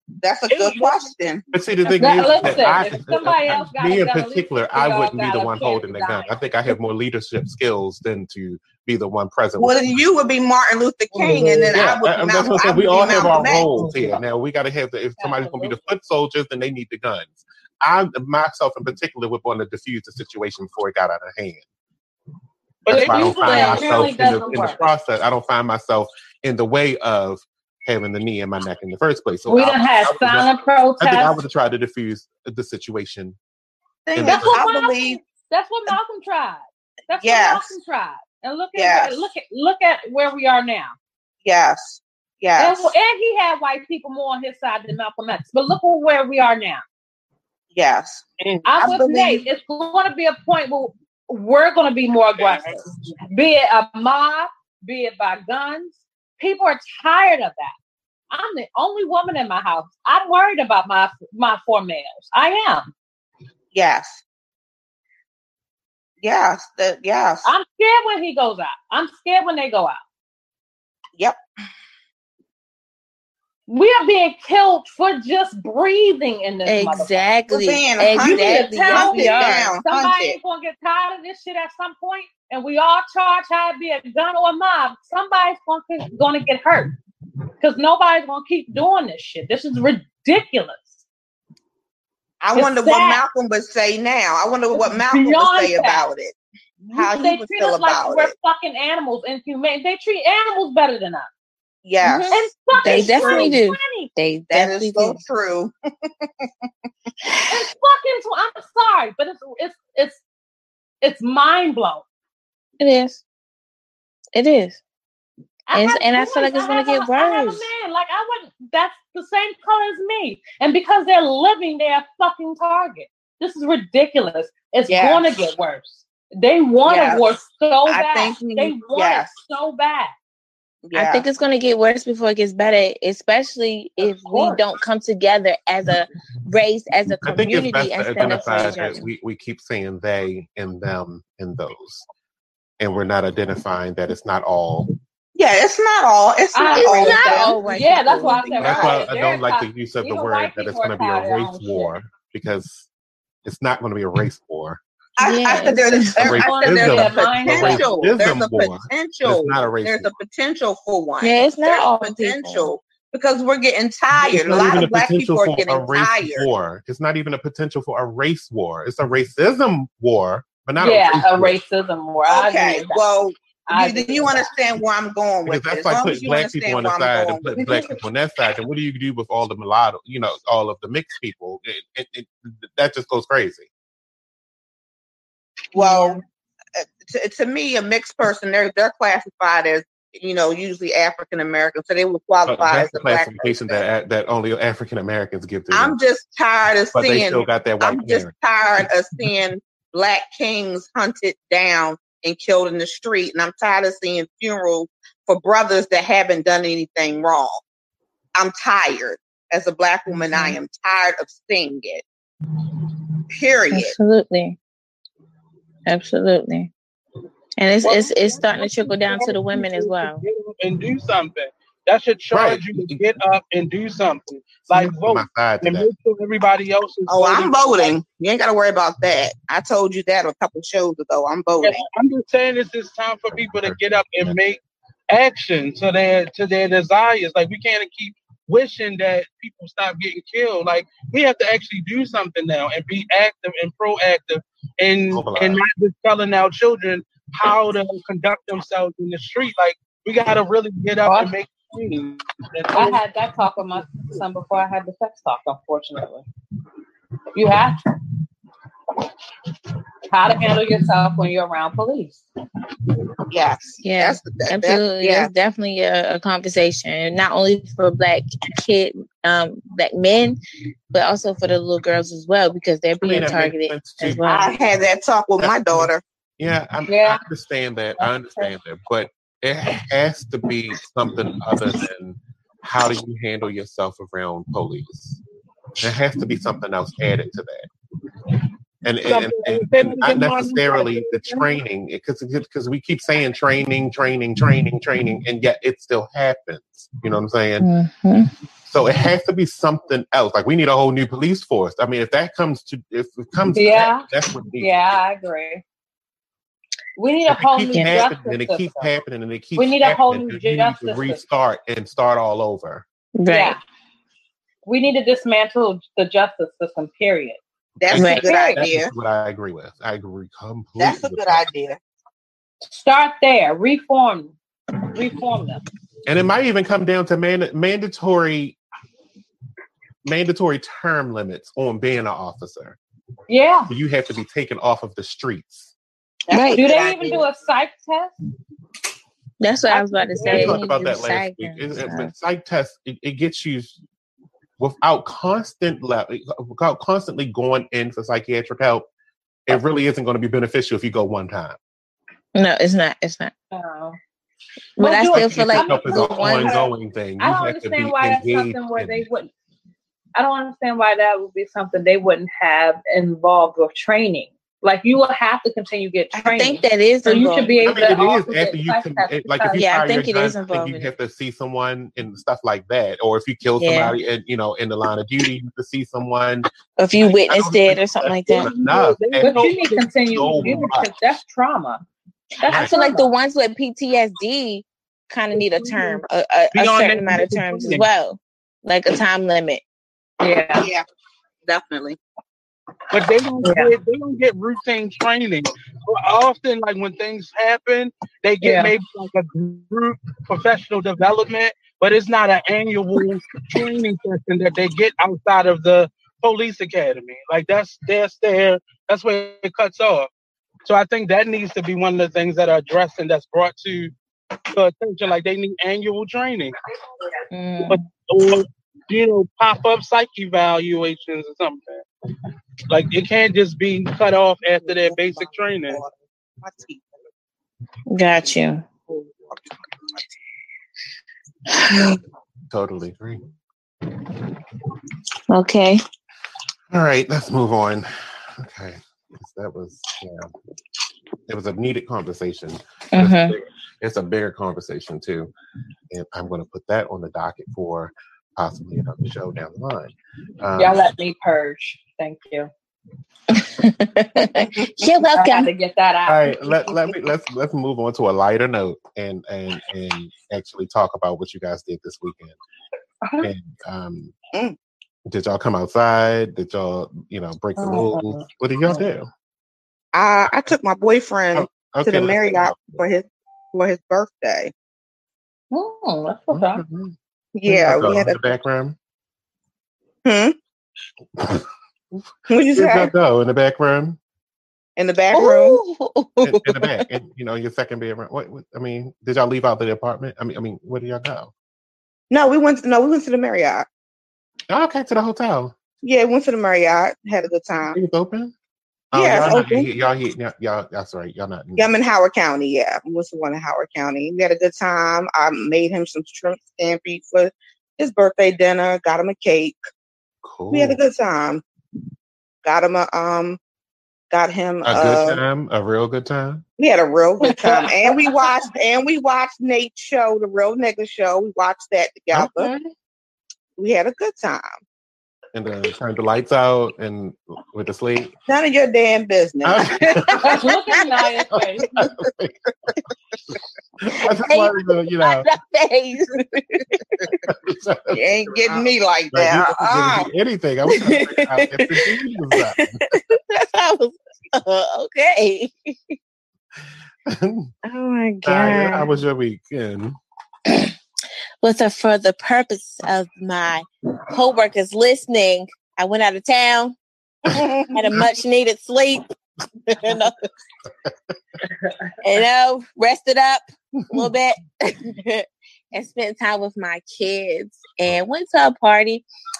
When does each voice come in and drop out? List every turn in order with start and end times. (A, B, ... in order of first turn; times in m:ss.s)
0:00.2-0:01.4 A
0:00.5-0:01.1 B
0:01.5-0:10.0 C
0:01.9-0:06.3 D
0:09.6-0:13.8 A
0:11.1-0:11.6 B
0:11.7-0:21.6 C
0:15.2-0:15.8 D
0:22.8-0:23.6 B
0:22.9-0:24.8 D
0:22.9-0:33.4 C
0:23.5-0:24.1 E
0:29.5-0:31.3 D
0:34.0-0:35.2 A
0:34.1-0:34.6 C
0:34.2-0:41.0 D
0:37.2-0:37.7 A
0:38.8-0:39.1 A
0:41.4-0:42.9 A
0:42.6-0:46.8 D
0:47.7-0:48.2 A
0:48.4-0:48.7 B
0:48.6-0:57.7 D
0:48.7-0:49.5 A
0:52.4-0:53.1 B
0:58.3-1:02.9 D
1:03.7-1:04.2 A
1:06.2-1:07.5 A
1:07.4-1:10.0 D
1:13.7-1:17.2 D
1:16.6-1:19.7 E
1:17.5-1:20.4 A
1:18.2-1:26.9 D
1:27.6-1:30.9 D
1:32.4-1:36.4 A
1:32.5-1:33.2 D
1:34.7-1:36.0 D
1:36.9-1:38.3 A
1:36.9-1:41.3 D
1:41.8-1:43.5 A
1:42.0-1:45.2 E
1:42.3-1:44.1 D
1:44.5-1:46.5 A
1:47.5-1:50.2 D
1:51.0-1:52.0 D
1:52.8-1:53.2 E
1:54.3-1:54.8 E
1:55.7-2:10.1 D
1:55.7-1:57.6 E
2:04.9-2:05.3 A
2:06.8-2:07.3 A
2:07.8-2:09.3 A
2:10.8-2:11.2 A
2:10.9-2:19.1 E
2:14.3-2:14.6 D
2:17.2-2:22.0 C
2:22.8-2:24.9 C
2:25.4-2:29.1 A
2:26.5-2:31.9 D
2:26.7-2:28.5 E
2:28.6-2:32.9 C
2:33.4-2:34.8 C
2:35.2-2:46.5 A
2:35.2-2:36.5 E
2:36.1-2:40.1 C
2:36.4-2:37.9 D
2:41.2-2:42.7 E
2:44.2-2:51.6 C
2:50.8-2:53.0 D
2:52.3-2:57.5 A
2:53.7-2:54.5 D
2:55.4-3:03.7 C
2:57.6-2:58.0 D
3:05.7-3:06.2 A
3:05.7-3:06.2 E
3:06.8-3:13.8 A
3:12.5-3:16.0 C
3:15.7-3:27.6 A
3:16.9-3:18.8 C
3:28.3-3:32.0 A
3:33.3-3:33.9 A
3:33.7-3:34.6 E
3:35.9-3:36.7 E
3:37.6-3:40.2 E
3:37.8-3:47.9 B
3:42.3-3:43.0 C
3:44.7-3:45.9 C
3:47.1-3:51.8 A
3:51.9-4:13.0 B
3:53.3-3:54.4 C
4:05.1-4:05.6 C
4:11.0-4:11.3 D
4:12.7-4:16.2 D
4:17.3-4:17.8 D
4:20.1-4:22.2 D
4:23.3-4:25.3 A
4:23.8-4:30.4 E
4:30.9-4:34.5 E
4:33.0-4:34.6 C
4:34.2-4:36.0 A
4:35.4-4:45.2 C
4:36.9-4:37.2 D
4:38.0-4:38.5 D
4:45.8-4:47.7 C
4:48.8-4:57.7 C
4:49.0-4:51.5 B
4:57.6-4:58.3 E
4:58.7-5:05.0 C
5:03.5-5:04.0 D
5:04.6-5:05.6 D
5:07.0-5:08.9 D
5:07.3-5:12.8 C
5:09.6-5:11.2 D
5:13.1-5:13.6 E
5:13.3-5:13.6 D
5:14.6-5:17.4 D
5:17.8-5:18.9 A
5:17.8-5:21.4 C
5:17.9-5:18.6 E
5:18.3-5:18.5 D
5:20.8-5:21.8 A
5:22.7-5:24.3 D
5:24.9-5:25.6 D
5:26.0-5:28.6 C
5:30.0-5:32.8 C
5:33.3-5:33.7 D
5:33.7-5:35.7 C
5:36.3-5:37.3 A
5:36.3-5:36.7 E
5:36.5-5:38.1 D
5:39.4-5:42.1 E
5:40.2-5:40.4 D
5:40.2-5:43.8 C
5:44.6-5:48.9 C
5:49.5-5:51.6 C
5:52.3-5:53.3 E
5:53.5-5:54.0 D
5:54.8-5:56.6 E
5:54.8-5:59.3 D
5:55.1-5:59.0 C
6:00.1-6:09.6 D
6:06.2-6:07.8 E
6:07.6-6:16.5 C
6:09.5-6:10.9 E
6:13.6-6:14.0 E
6:16.8-6:18.5 E
6:17.3-6:20.9 C
6:18.4-6:19.5 B
6:19.2-6:21.8 D
6:22.4-6:29.6 E
6:22.4-6:23.1 D
6:22.5-6:22.8 C
6:26.6-6:27.8 B
6:30.2-6:30.7 D
6:30.6-6:30.8 A
6:31.4-6:32.0 A
6:32.9-6:50.1 B
6:33.4-6:33.7 D
6:38.4-6:38.7 D
6:50.6-6:53.9 B
6:54.5-6:56.6 B
6:57.3-6:57.8 E
6:57.7-7:01.8 B
7:02.7-7:05.8 B
7:04.6-7:07.0 A
7:07.9-7:08.6 E
7:08.9-7:09.6 A
7:11.5-7:12.0 E
7:12.5-7:13.2 C
7:15.3-7:15.8 E
7:16.7-7:20.3 C
7:21.3-7:25.3 C
7:22.9-7:23.4 E
7:25.9-7:30.8 C
7:30.6-7:32.5 D
7:33.3-7:35.5 E
7:35.1-7:36.4 D
7:36.1-7:42.4 C
7:43.0-7:43.3 D
7:43.2-7:44.1 C
7:45.1-7:49.1 C
7:47.6-7:48.1 D
7:49.9-7:54.5 A
7:51.3-7:52.8 C
7:55.5-7:56.6 D
7:56.3-7:56.9 C
7:57.3-7:58.2 A
7:57.5-7:58.8 C
8:00.0-8:00.3 A
8:01.2-8:04.0 C
8:02.3-8:02.9 A
8:04.8-8:05.6 A
8:05.1-8:06.7 E
8:06.2-8:11.3 C
8:12.1-8:13.6 A
8:14.5-8:15.5 C
8:15.8-8:17.8 A
8:17.7-8:18.3 C
8:18.9-8:21.7 C
8:18.9-8:19.7 A
8:21.6-8:29.6 A
8:30.2-8:30.8 C
8:30.5-8:31.4 A
8:32.4-8:33.4 A
8:34.1-8:35.2 A
8:34.6-8:36.4 C
8:36.6-8:42.5 A
8:37.2-8:38.1 E
8:43.6-8:44.6 A
8:45.3-8:48.1 C
8:48.3-8:50.1 A
8:49.4-8:50.4 C
8:50.2-8:51.7 D
8:51.3-8:52.7 C
8:53.8-8:55.3 C
8:54.3-8:57.1 E
8:57.2-9:02.8 C
8:57.9-9:00.1 A
9:00.7-9:06.0 E
9:07.0-9:07.5 C
9:07.6-9:08.9 E
9:08.2-9:10.0 C
9:10.5-9:10.7 E
9:11.4-9:16.8 E
9:17.3-9:19.0 E
9:19.7-9:20.2 E
9:22.0-9:29.0 E